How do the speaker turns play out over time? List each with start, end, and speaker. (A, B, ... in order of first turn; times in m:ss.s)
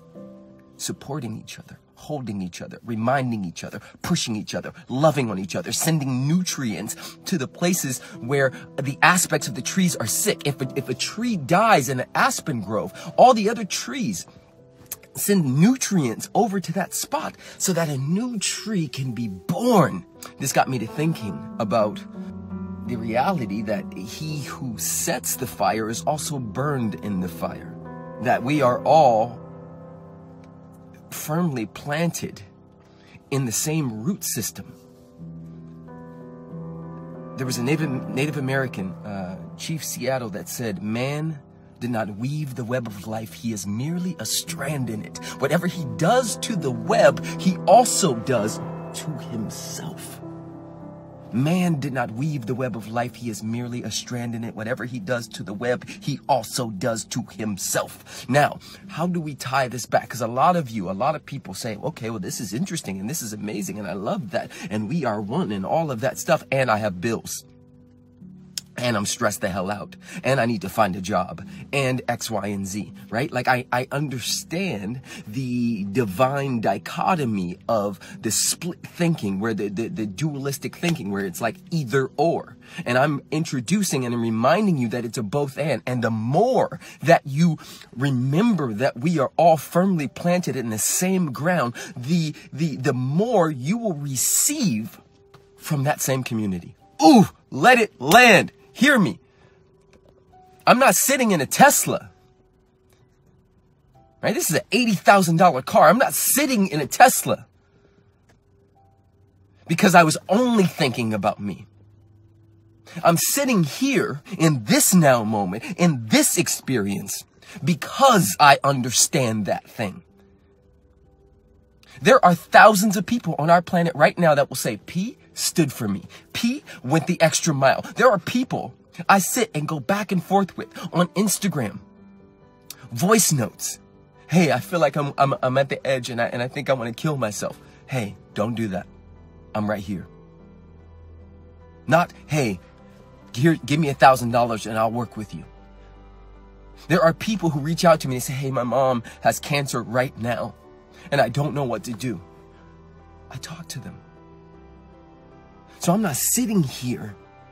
0:00.8-0:14.3 A
0:15.1-0:22.1 A
0:22.8-0:29.4 A
0:31.1-0:32.5 A
0:33.3-0:34.7 A
0:37.3-0:50.2 A
0:51.3-1:07.4 A
1:08.8-1:35.0 A
1:35.6-1:39.2 A
1:40.7-1:42.1 A
1:44.2-1:47.5 A
1:49.7-1:51.7 A
1:53.0-2:00.0 A
2:02.0-2:11.8 A
2:12.9-2:18.9 A
2:19.5-2:20.1 A
2:21.9-2:22.6 A
2:23.3-2:25.5 A
2:26.9-2:30.6 A
2:31.1-2:32.2 A
2:33.3-2:34.0 A
2:35.8-2:37.2 A